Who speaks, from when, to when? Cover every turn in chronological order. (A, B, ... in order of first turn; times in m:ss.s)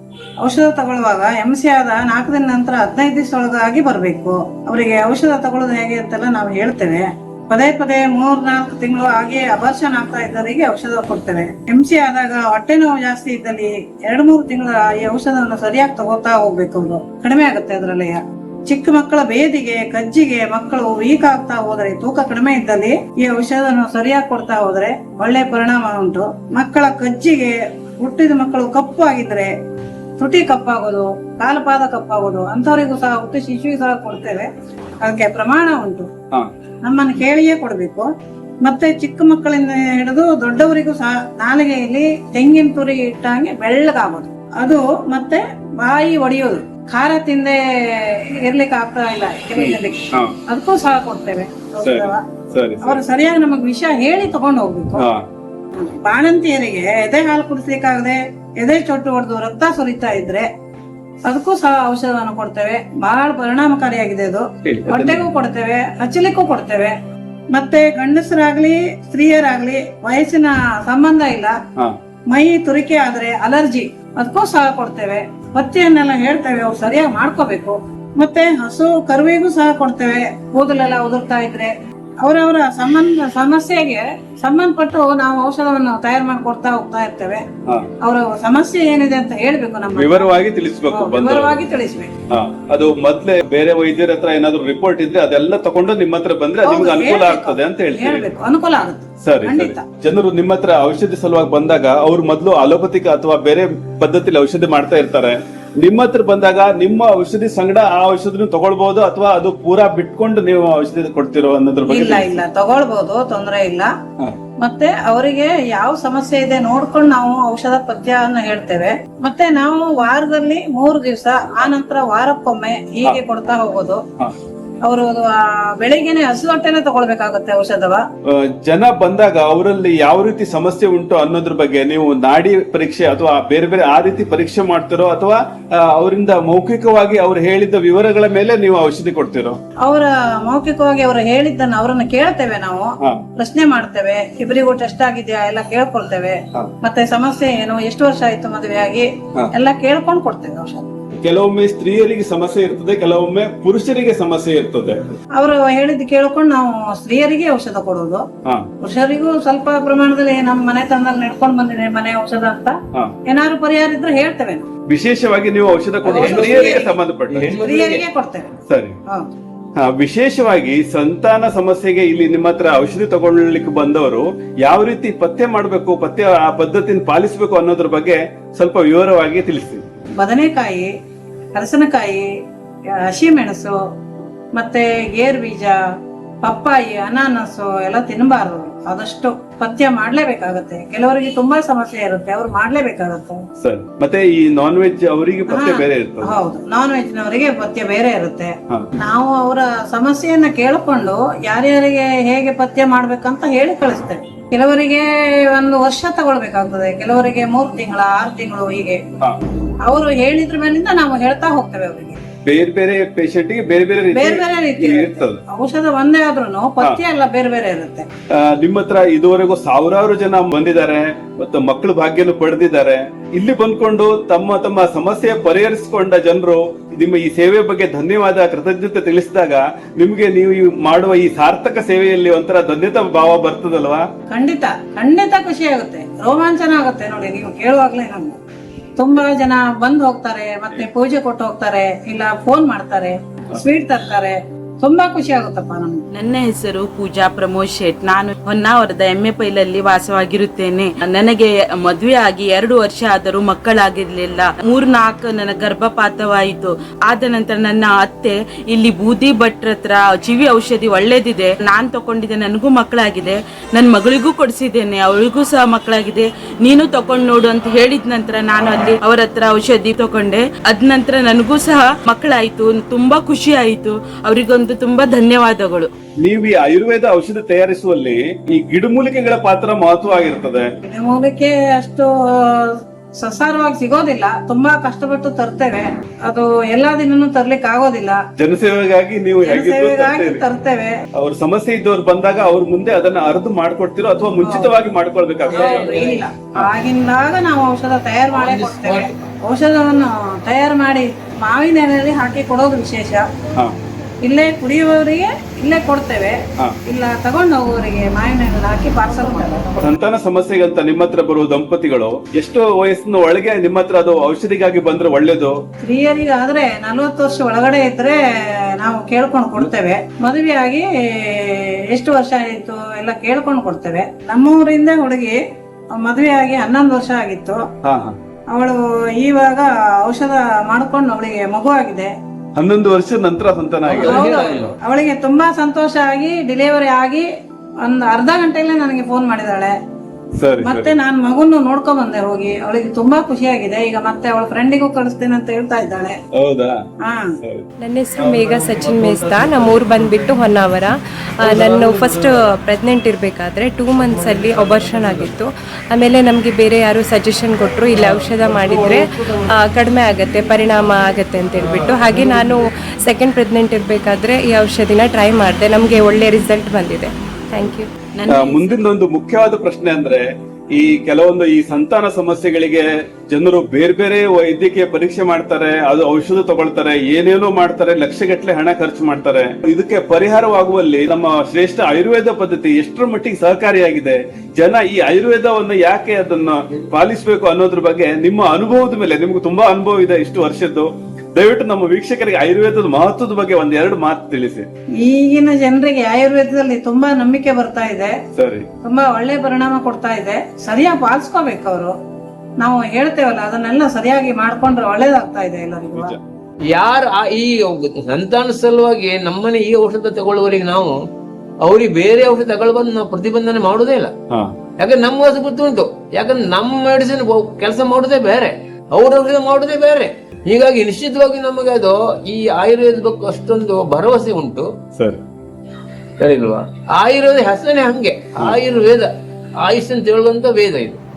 0:00.4-0:29.5 A
0:30.2-0:34.5 A
0:35.0-0:36.1 A
0:36.8-0:38.1 A
0:38.6-0:52.2 A
0:49.6-0:50.3 B
0:51.8-0:53.0 B
0:52.8-0:55.1 A
0:55.0-0:55.2 B
0:55.8-1:00.5 A
1:01.2-1:06.9 A
1:04.6-1:05.2 B
1:07.5-1:11.6 A
1:12.3-1:27.4 A
1:28.0-1:30.3 A
1:30.0-1:31.6 B
1:30.9-1:32.1 A
1:32.3-1:38.3 B
1:36.6-1:39.8 A
1:39.2-1:52.4 B
1:51.9-1:53.9 A
1:54.6-2:04.0 A
2:04.8-2:08.0 A
2:08.2-2:19.6 B
2:19.8-2:30.9 A
2:31.2-2:35.1 B
2:35.4-2:38.2 A
2:38.8-2:42.8 A
2:43.3-2:44.7 A
2:44.9-2:47.5 B
2:46.0-2:48.0 C
2:46.1-2:46.9 A
2:47.6-2:48.5 A
2:48.7-2:49.0 B
2:49.8-2:59.8 B
3:00.2-3:00.9 A
3:01.6-3:02.3 A
3:03.0-3:03.8 A
3:04.5-3:05.8 A
3:06.4-3:13.4 A
3:13.6-3:16.3 B
3:15.5-3:29.0 A
3:29.8-3:32.2 A
3:32.4-3:35.4 B
3:34.1-3:38.1 A
3:38.3-3:54.0 B
3:54.3-3:58.4 A
3:59.0-4:06.0 A
4:06.1-4:35.9 D
4:36.2-4:40.7 B
4:40.8-4:48.2 A
4:48.4-4:50.4 B
4:49.4-4:51.0 A
4:51.2-4:56.0 B
4:54.4-4:54.7 A
4:55.5-4:56.2 C
4:55.5-5:03.2 A
4:58.3-4:59.1 C
5:04.2-5:09.8 A
5:09.8-5:15.6 B
5:15.8-5:18.2 A
5:18.8-5:25.4 A
5:26.0-5:27.6 A
5:27.8-5:28.2 B
5:28.5-5:32.1 A
5:32.6-5:34.3 B
5:33.8-5:34.8 C
5:33.9-5:37.3 A
5:37.8-5:39.7 A
5:40.4-5:41.0 B
5:40.6-5:46.2 A
5:46.3-5:46.8 B
5:47.0-5:47.3 A
5:47.4-5:47.7 B
5:47.8-6:07.9 E
5:48.2-5:50.3 B
5:51.4-5:52.4 C
5:53.9-5:55.4 C
5:57.8-5:59.6 C
6:00.8-6:02.6 C
6:08.2-6:08.9 D
6:08.3-6:34.7 B
6:35.0-6:38.1 A
6:38.4-6:38.7 B
6:38.8-6:41.9 A
6:42.6-6:46.1 A
6:46.7-6:51.0 C
6:51.6-6:54.1 C
6:54.3-6:54.6 B
6:54.8-7:04.7 C
7:06.2-7:09.1 C
7:09.6-7:11.0 C